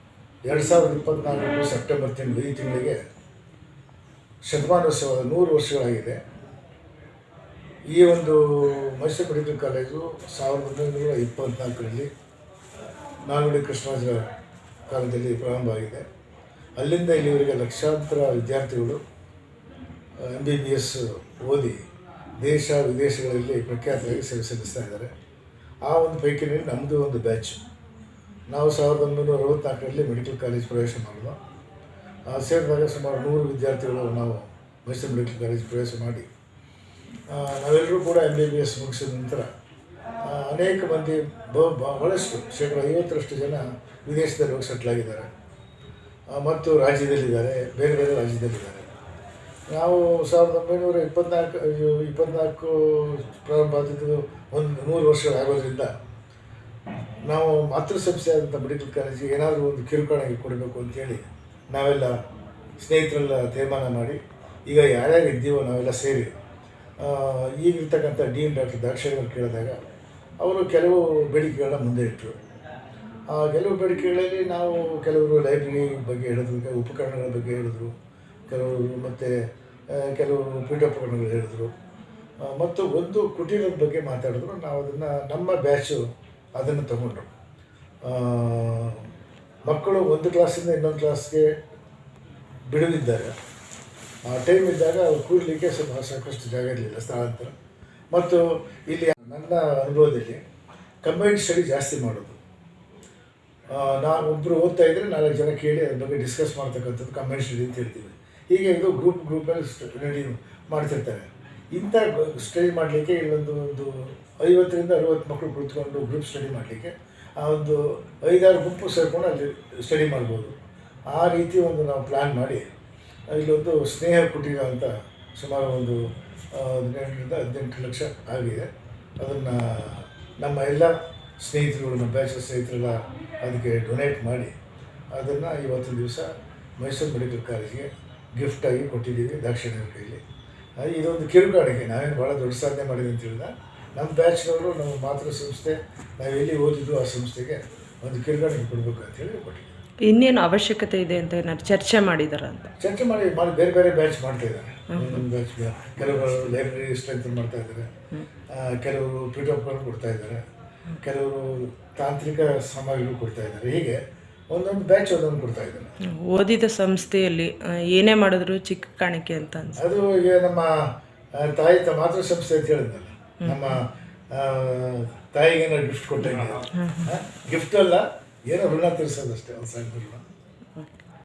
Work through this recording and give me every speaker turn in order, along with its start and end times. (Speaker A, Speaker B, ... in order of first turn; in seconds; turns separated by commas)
Speaker A: 0.4-3.0, Speaker A: 4.4-6.2, Speaker A: 7.9-12.1, Speaker A: 13.3-14.3, Speaker A: 14.9-16.0, Speaker A: 16.8-19.0, Speaker A: 20.2-21.8, Speaker A: 22.4-25.1, Speaker A: 25.9-27.6, Speaker A: 28.5-31.4, Speaker A: 32.3-36.3, Speaker A: 37.3-39.5, Speaker A: 40.2-45.3, Speaker A: 46.3-48.9, Speaker A: 49.7-55.9, Speaker A: 57.2-62.2, Speaker A: 62.8-66.3, Speaker A: 67.0-69.8, Speaker A: 70.4-72.3, Speaker A: 73.3-77.9, Speaker A: 78.5-79.3, Speaker A: 79.9-81.7, Speaker A: 82.4-86.0, Speaker A: 86.6-87.3, Speaker A: 88.0-89.0, Speaker A: 89.7-91.5, Speaker A: 92.7-93.3, Speaker A: 94.2-97.5, Speaker A: 98.1-100.4, Speaker A: 101.0-102.4, Speaker A: 103.7-120.5, Speaker A: 121.1-122.6, Speaker A: 123.3-128.7, Speaker A: 129.2-134.5, Speaker A: 135.1-140.2, Speaker A: 140.8-149.7, Speaker B: 150.0-152.7, Speaker A: 152.8-157.9, Speaker B: 154.9-155.2, Speaker A: 158.5-160.4, Speaker A: 161.0-164.0, Speaker A: 164.5-165.9, Speaker B: 166.0-169.8, Speaker A: 169.8-170.7, Speaker A: 171.3-180.2, Speaker B: 173.4-173.8, Speaker B: 176.7-177.2